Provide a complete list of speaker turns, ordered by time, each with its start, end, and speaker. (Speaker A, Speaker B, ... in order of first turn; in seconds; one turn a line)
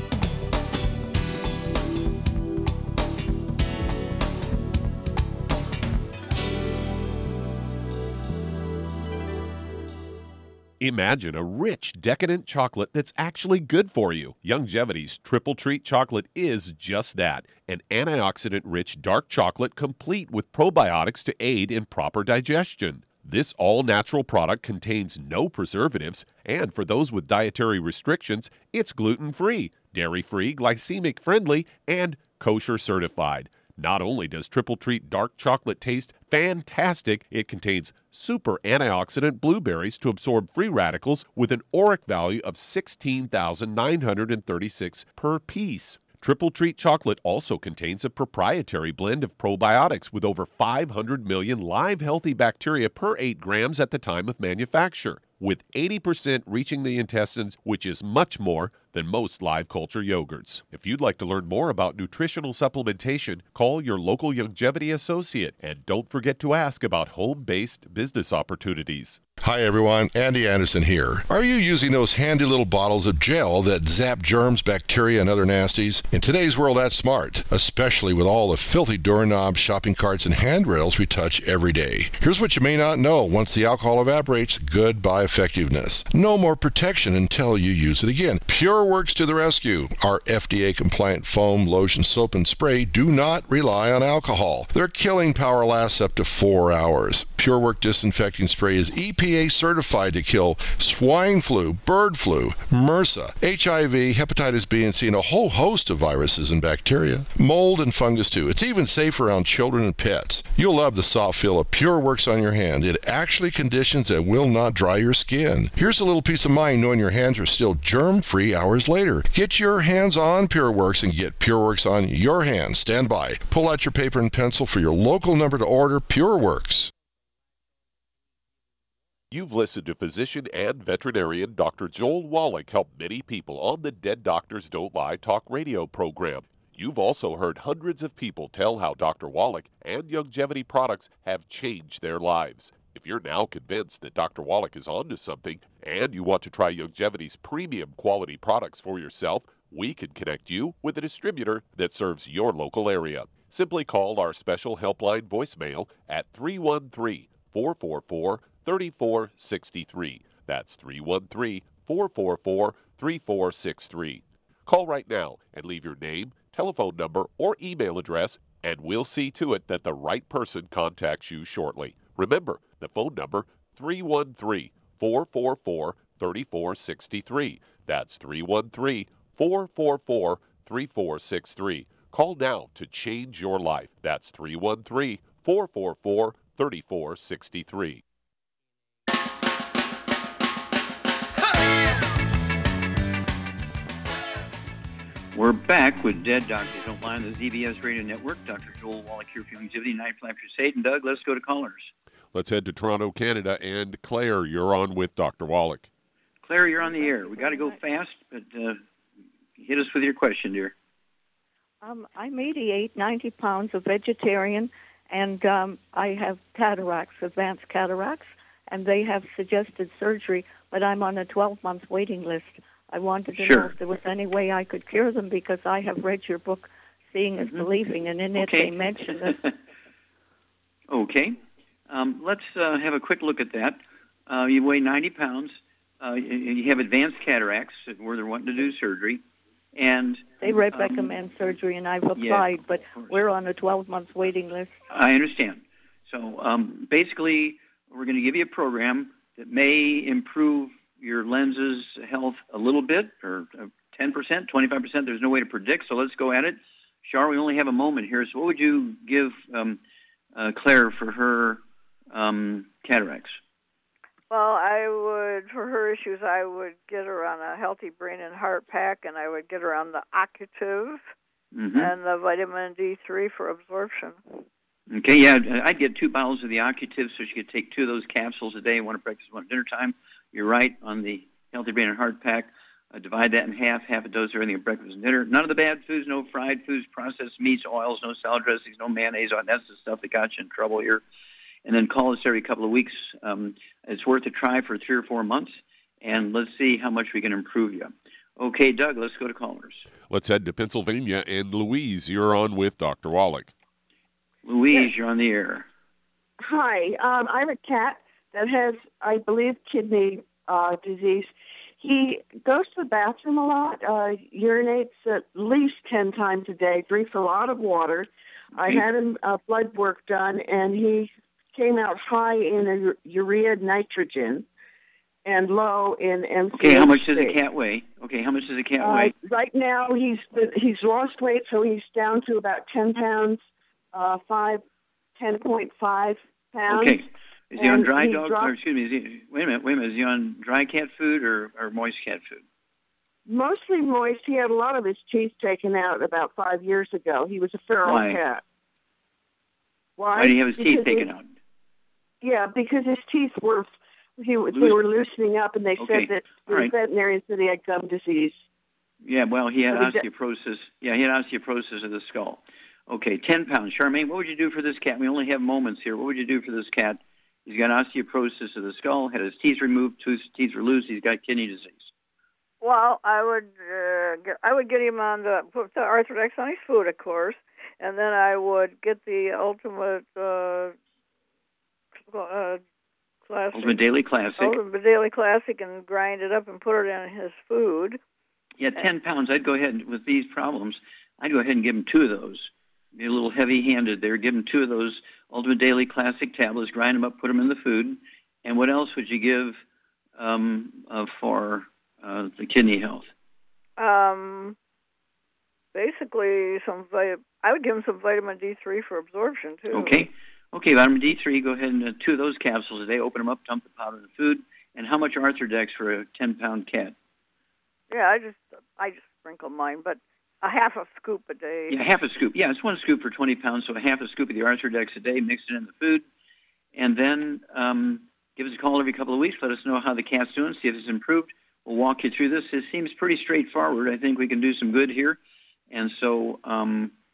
Speaker A: 10.8-69.2
Speaker B: 69.4-126.9
Speaker A: 129.3-188.0
Speaker C: 195.3-201.9
Speaker A: 202.3-205.9
Speaker C: 206.4-208.8
Speaker D: 207.1-207.8
Speaker C: 209.6-210.7
Speaker D: 211.8-229.4
Speaker C: 223.3-223.7
Speaker C: 227.4-227.7
Speaker C: 228.3-229.5
Speaker C: 230.9-231.4
Speaker C: 231.9-239.2
Speaker C: 239.7-241.2
Speaker D: 240.4-244.8
Speaker C: 242.2-243.2
Speaker C: 244.9-259.8
Speaker C: 260.3-263.4
Speaker E: 264.3-271.0
Speaker C: 271.5-271.9
Speaker E: 271.8-274.4
Speaker C: 274.9-291.0
Speaker C: 291.6-299.9
Speaker A: 300.1-303.5
Speaker C: 304.4-305.7
Speaker F: 306.4-324.4
Speaker C: 318.6-318.8
Speaker F: 325.2-327.4
Speaker C: 326.5-329.1
Speaker F: 328.8-334.6
Speaker F: 335.1-338.5
Speaker C: 336.7-342.4
Speaker F: 343.2-348.4
Speaker C: 347.8-348.2
Speaker F: 350.0-351.1
Speaker C: 350.1-351.3
Speaker F: 352.2-358.4
Speaker C: 354.5-354.8
Speaker C: 355.8-356.7
Speaker C: 359.0-371.9
Speaker F: 359.7-360.0
Speaker E: 372.6-380.8
Speaker E: 382.1-382.6
Speaker E: 383.3-383.8
Speaker C: 383.5-384.6
Speaker E: 384.4-388.0
Speaker C: 388.6-399.6
Speaker C: 400.2-403.1
Speaker E: 403.8-404.6
Speaker E: 405.7-410.1
Speaker C: 409.7-416.9
Speaker E: 417.9-421.8
Speaker C: 421.7-426.1
Speaker C: 426.7-435.2
Speaker C: 435.7-436.9